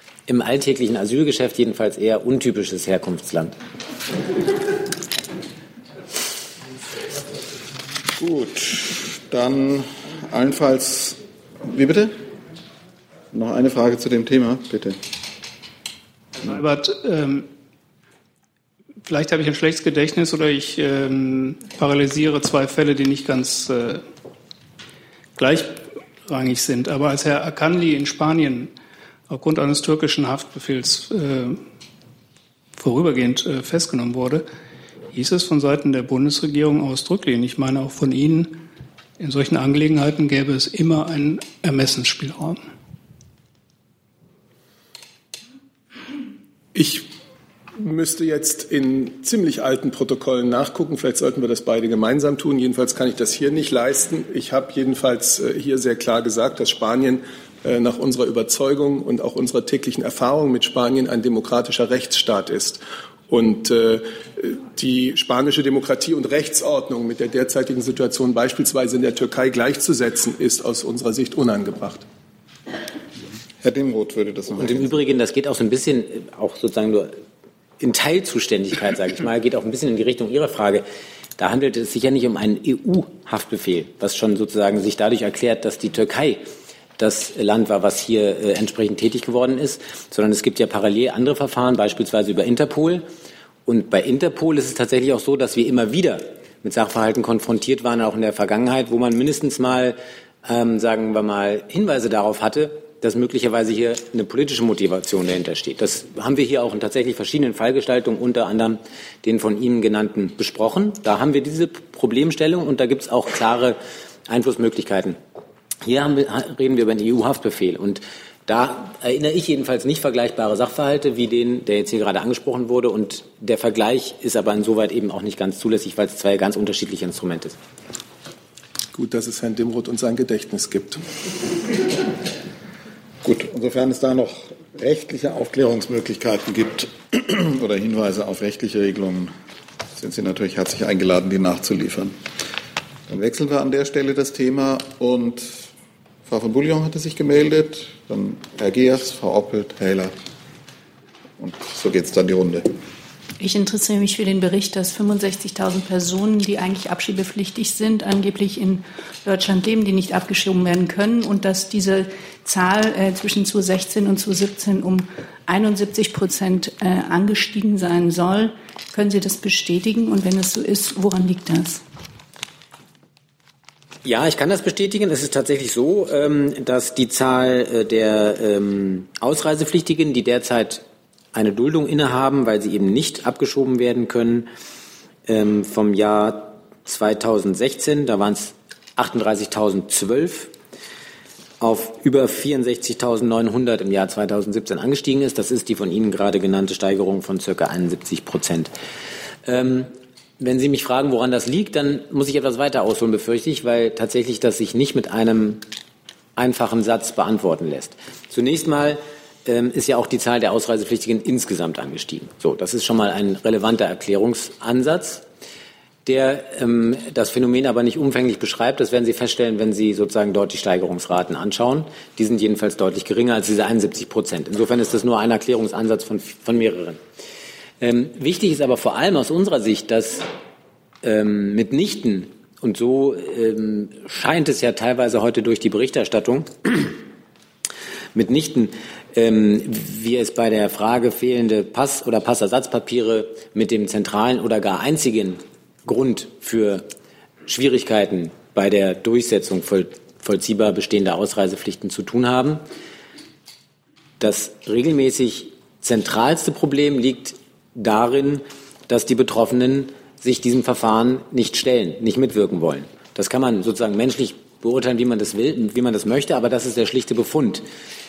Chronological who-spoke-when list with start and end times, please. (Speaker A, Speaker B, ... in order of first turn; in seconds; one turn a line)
Speaker A: 0.3-3.5
Speaker B: 8.2-12.2
Speaker B: 13.3-15.0
Speaker C: 16.4-17.5
Speaker C: 19.1-24.1
Speaker C: 25.4-28.7
Speaker C: 29.3-31.6
Speaker C: 32.8-34.5
Speaker C: 35.1-38.7
Speaker C: 39.2-42.6
Speaker D: 46.8-47.1
Speaker D: 47.8-72.0
Speaker B: 73.6-75.0
Speaker A: 74.6-77.2
Speaker A: 77.8-80.8
Speaker A: 81.4-86.5
Speaker A: 87.0-93.1
Speaker A: 93.7-115.2
Speaker A: 115.8-127.6
Speaker D: 128.9-131.1
Speaker B: 133.2-139.3
Speaker B: 140.0-142.2
Speaker B: 143.1-145.7
Speaker B: 146.3-150.1
Speaker B: 151.4-152.7
Speaker E: 153.4-171.8
Speaker A: 174.1-184.5
Speaker A: 185.3-190.5
Speaker A: 191.6-198.7
Speaker A: 199.5-205.7
Speaker A: 206.4-215.2
Speaker A: 216.1-227.0
Speaker A: 227.8-230.3
Speaker A: 231.0-237.0
Speaker A: 238.2-246.9
Speaker A: 247.5-252.6
Speaker A: 254.2-267.6